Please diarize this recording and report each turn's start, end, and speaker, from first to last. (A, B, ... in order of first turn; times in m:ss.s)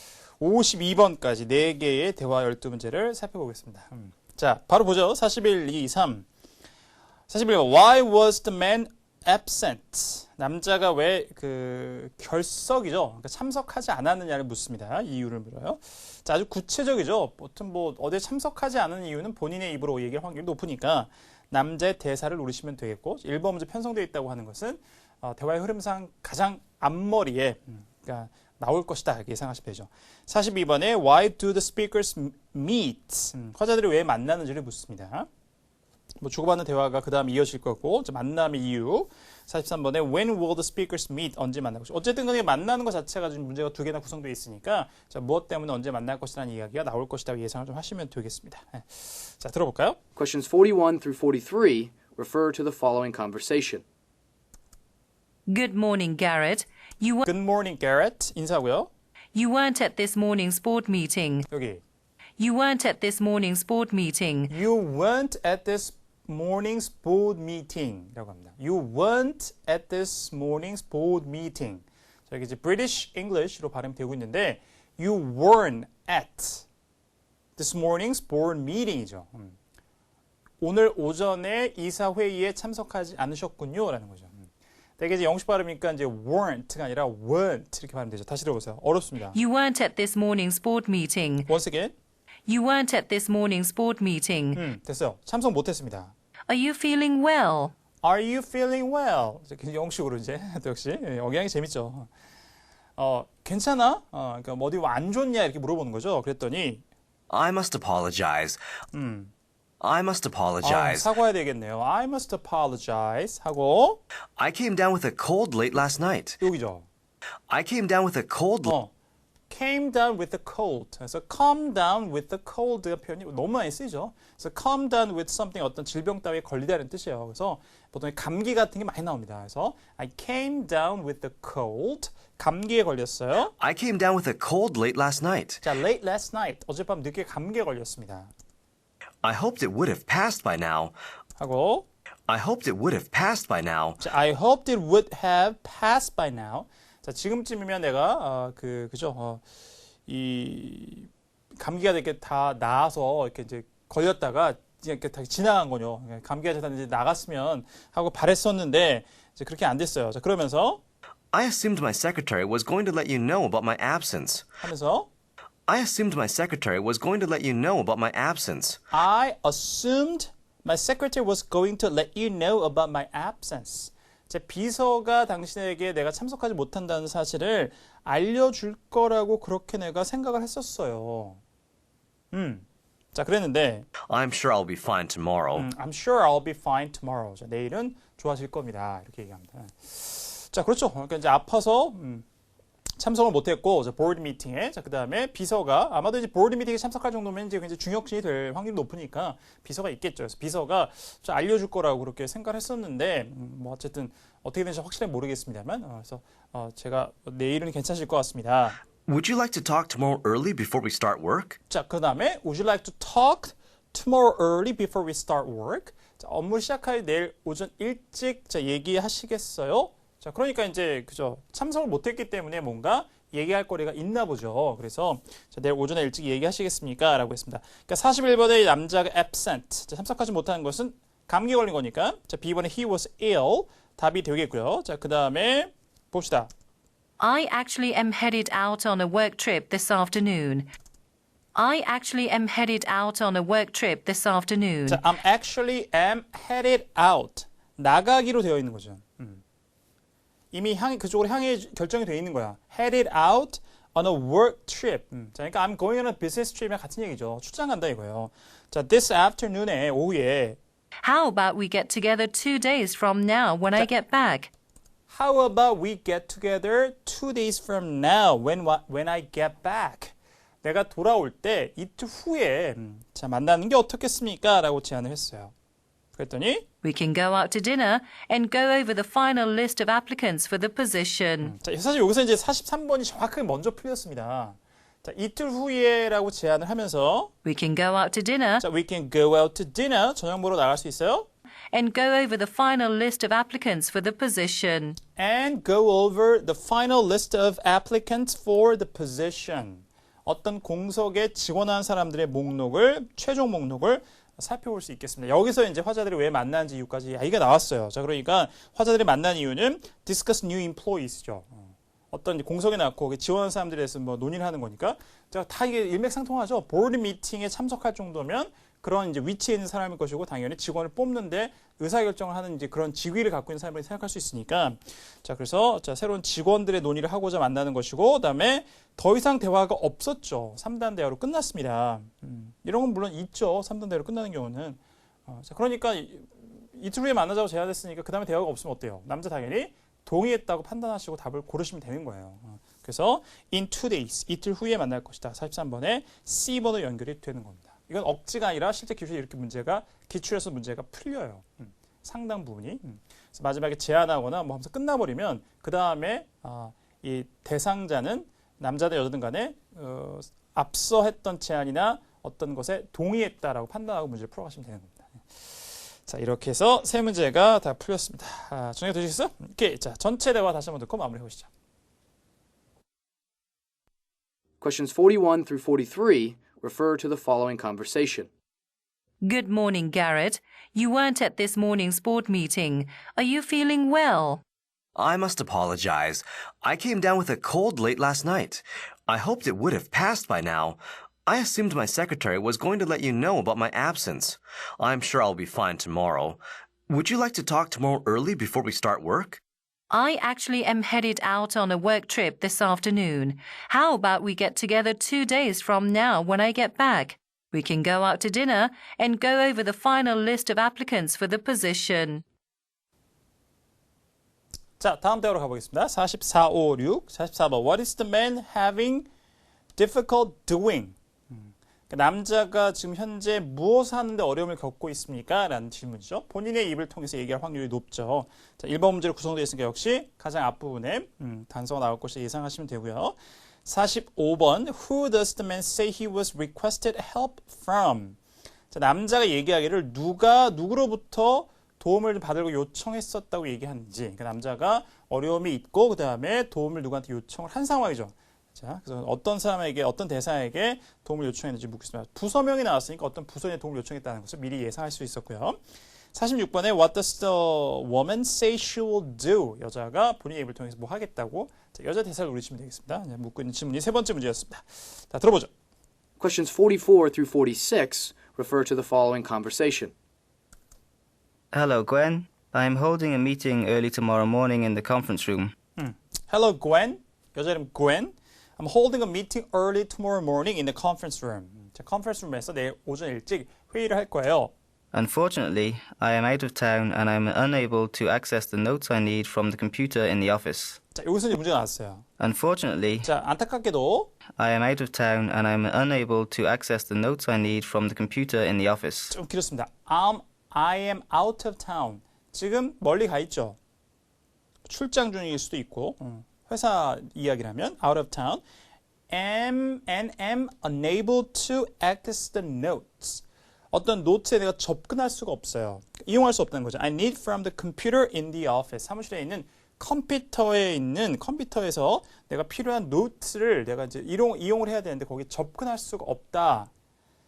0:00.4-0:06.2 A
0:07.3-0:35.3 A
0:36.2-0:50.0 A
0:50.2-0:53.8 B
0:55.5-0:57.2 C
0:57.2-0:58.9 A
0:59.3-1:01.5 C
1:01.5-1:01.8 A
1:02.4-1:04.5 C
1:04.5-1:16.6 A
1:17.6-1:19.6 A
1:20.6-1:29.4 A
1:29.3-1:31.5 C
1:31.5-1:31.9 A
1:32.5-1:34.6 C
1:34.5-1:36.1 A
1:36.5-1:37.7 C
1:38.0-1:42.1 A
1:43.0-1:46.8 A
1:47.3-1:48.6 D
1:48.9-1:49.3 A
1:49.8-1:51.1 D
1:50.6-1:54.0 A
1:54.4-1:56.4 D
1:56.4-1:56.9 A
1:57.5-1:58.7 D
1:58.6-1:58.9 A
1:59.5-2:13.5 A
2:13.6-2:15.6 D
2:15.6-2:18.3 A
2:19.2-2:20.9 D
2:21.4-2:21.8 A
2:22.3-2:24.0 D
2:24.0-2:29.4 A
2:30.1-2:40.8 A
2:41.3-2:44.4 D
2:44.6-2:45.1 A
2:45.7-2:48.8 D
2:48.9-3:01.4 A
3:02.3-3:03.9 A
3:04.1-3:05.7 D
3:05.5-3:12.2 A
3:13.0-3:28.8 A
3:29.0-3:31.6 D
3:31.7-3:56.5 A
3:57.2-4:00.7 C
4:01.5-4:05.0 C
4:04.9-4:09.4 A
4:10.5-4:20.6 A
4:21.0-4:24.5 C
4:25.1-4:35.5 A
4:36.1-4:36.6 A
4:36.8-4:41.5 C
4:41.4-4:47.3 A
4:47.4-4:48.6 C
4:48.6-4:51.3 A
4:51.7-4:55.0 C
4:55.2-6:11.5 A
6:14.6-6:18.3 B
6:19.2-6:24.4 C
6:25.0-6:39.4 D
6:39.9-6:52.2 C
6:54.8-6:59.1 A
6:59.8-7:18.2 A
7:18.7-7:35.6 A
7:36.1-7:45.5 A
7:46.2-7:49.9 B
7:51.5-7:55.5 E
7:55.8-8:04.5 A
8:04.9-8:10.8 E
8:10.9-8:12.0 A
8:12.2-8:13.1 E
8:13.0-8:14.1 A
8:14.4-8:19.1 E
8:19.1-8:23.6 A
8:24.6-8:28.4 A
8:29.1-8:46.7 A